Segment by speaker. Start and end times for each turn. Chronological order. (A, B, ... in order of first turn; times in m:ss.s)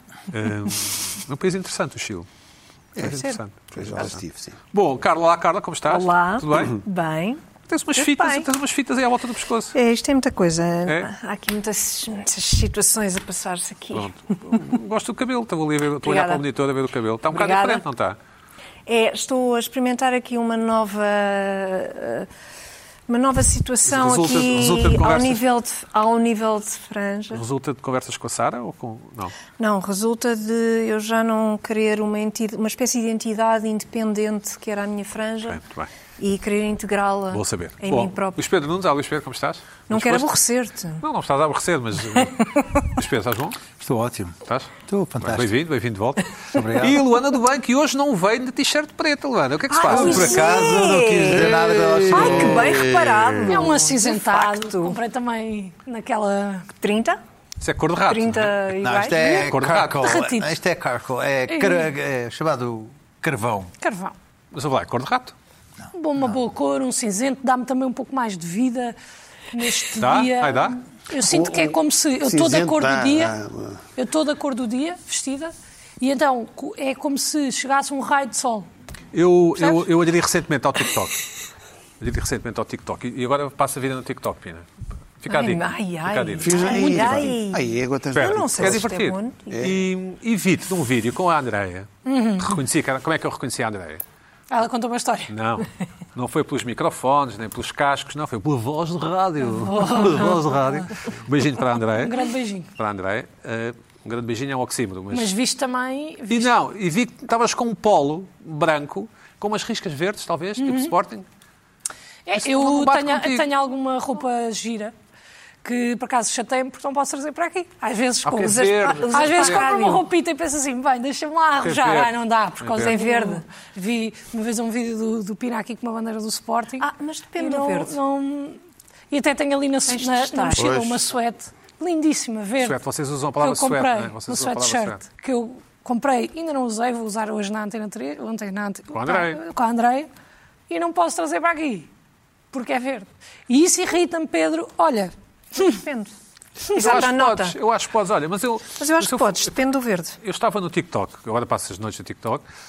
0:00.3-0:02.3 A
0:03.0-0:04.2 A
0:03.0-0:03.4 B
0:03.7-0:04.6 C
0:04.7-0:06.8 A
0:05.9-0:07.4 B
0:07.7-0:09.8 A
0:08.0-0:08.5 B
0:09.7-0:14.7 B
0:10.9-0:11.1 A
0:13.9-0:18.2 A
0:16.0-0:16.4 B
0:17.3-0:17.8 B
0:18.9-0:22.3 B
0:23.1-0:27.4 B
0:23.8-0:25.4 A
0:27.3-0:29.4 A
0:29.6-0:35.6 B
0:35.4-0:35.9 A
0:36.2-0:38.4 B
0:37.3-0:40.4 A
0:39.9-0:41.0 B
0:41.0-0:42.4 A
0:42.4-0:42.9 B
0:42.9-0:43.6 A
0:43.8-0:45.6 D
0:45.2-0:50.4 A
0:46.5-0:47.0 D
0:49.7-0:51.5 B
0:49.9-0:52.8 D
0:51.4-0:53.6 C
0:52.1-0:55.0 B
0:53.5-0:56.7 E
0:56.8-0:57.2 B
0:57.6-0:58.6 A
0:58.0-0:59.4 B
0:58.8-1:03.7 D
0:59.4-1:00.0 A
1:00.0-1:00.5 E
1:01.5-1:01.9 E
1:03.8-1:04.2 E
1:04.5-1:05.4 A
1:05.8-1:06.4 D
1:06.0-1:09.0 E
1:09.5-1:13.4 E
1:10.0-1:10.8 A
1:11.2-1:13.8 C
1:14.0-1:18.7 E
1:19.1-1:21.2 A
1:19.6-1:19.8 E
1:22.0-1:24.7 A
1:25.2-1:27.3 A
1:25.3-1:29.6 B
1:26.4-1:28.8 C
1:28.1-1:34.0 A
1:29.5-1:29.8 C
1:32.1-1:32.5 E
1:34.5-1:35.3 E
1:35.3-1:42.2 A
1:39.8-1:40.1 E
1:42.0-1:42.7 E
1:42.8-1:45.3 A
1:45.1-1:46.5 E
1:46.3-1:51.3 A
1:50.6-1:50.9 E
1:52.3-1:54.9 E
1:52.4-1:53.5 A
1:55.6-2:06.9 E
1:58.3-1:59.7 A
1:58.3-2:00.0 B
2:01.6-2:03.0 A
2:02.8-2:03.4 B
2:06.8-2:07.9 B
2:07.4-2:08.6 E
2:09.1-2:12.8 E
2:09.9-2:10.7 B
2:10.5-2:11.0 C
2:12.6-2:15.0 A
2:13.4-2:20.1 E
2:18.9-2:19.4 A
2:20.7-2:21.9 E
2:22.5-2:25.8 E
2:25.6-2:26.1 B
2:26.7-2:27.6 B
2:26.8-2:29.6 A
2:28.8-2:30.2 B
2:30.2-2:32.4 A